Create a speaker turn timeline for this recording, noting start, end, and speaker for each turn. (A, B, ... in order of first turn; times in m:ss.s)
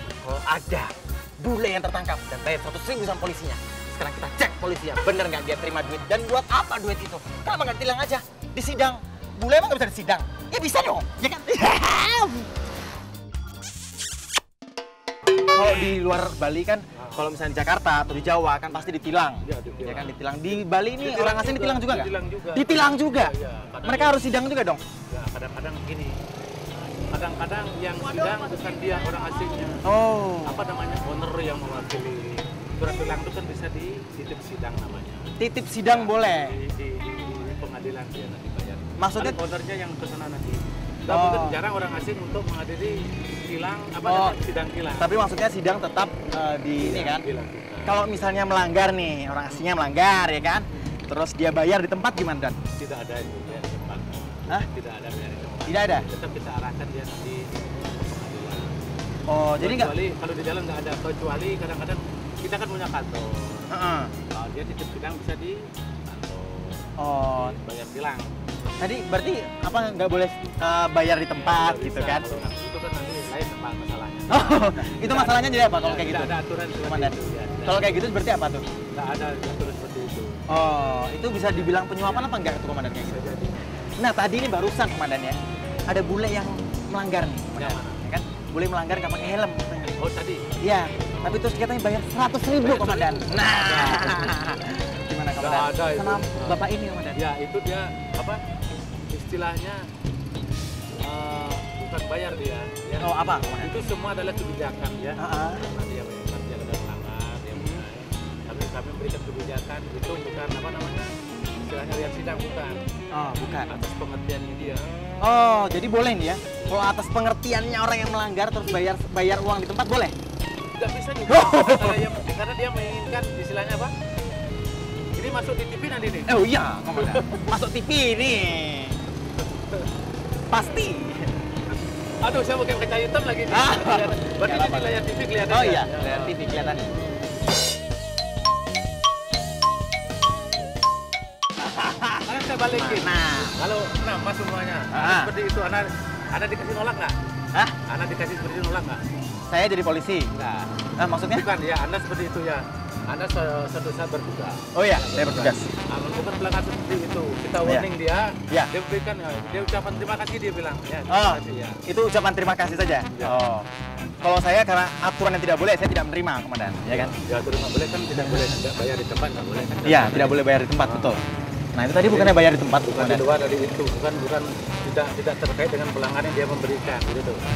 0:00.3-0:12.5 A
0:15.5-0:24.8 A
0:16.9-0:17.3 B
0:19.4-0:24.2 B
0:25.1-0:26.2 B
0:27.1-0:29.8 B
0:29.8-0:30.6 A
0:30.4-0:35.3 B
0:35.4-0:36.6 A
0:35.8-0:45.2 B
0:39.0-0:39.4 A
0:41.1-0:41.6 A
0:44.0-0:44.4 A
0:45.0-0:47.2 A
0:46.7-0:48.3 B
0:47.8-0:52.6 A
0:52.7-0:58.7 B
0:55.7-0:56.1 A
0:59.3-0:59.9 A
0:59.6-1:03.7 B
1:03.7-1:04.1 A
1:04.3-1:08.3 B
1:07.0-1:07.6 A
1:08.8-1:12.2 A
1:11.3-1:18.0 B
1:14.3-1:18.6 A
1:18.9-1:20.4 B
1:20.5-1:23.2 A
1:22.0-1:22.3 B
1:23.0-1:23.6 B
1:24.0-1:25.4 A
1:25.9-1:30.0 A
1:27.5-1:28.0 B
1:30.0-1:30.4 B
1:30.6-1:37.2 A
1:32.6-1:34.3 B
1:35.4-1:36.6 B
1:37.1-1:38.4 B
1:39.1-1:39.9 B
1:41.0-1:52.8 B
1:43.0-1:43.7 A
1:45.2-1:45.6 A
1:47.5-1:47.8 A
1:53.1-1:53.7 A
1:53.6-1:54.9 B
1:55.2-2:00.1 A
2:00.7-2:03.9 B
2:01.3-2:02.0 A
2:05.1-2:07.5 B
2:06.2-2:09.0 A
2:10.5-2:11.3 A
2:12.2-2:17.0 B
2:13.5-2:16.9 A
2:21.6-2:23.5 A
2:22.2-2:27.1 B
2:24.9-2:25.3 A
2:27.8-2:29.0 B
2:29.5-2:30.3 A
2:30.3-2:30.7 B
2:31.0-2:31.5 A
2:31.3-2:41.8 B
2:34.7-2:35.7 A
2:37.6-2:37.9 A
2:41.1-2:43.7 A
2:44.2-2:47.1 A
2:46.9-2:51.2 B
2:48.1-2:48.5 A
2:49.8-2:51.2 A
2:51.7-2:53.3 A
2:52.0-2:57.4 B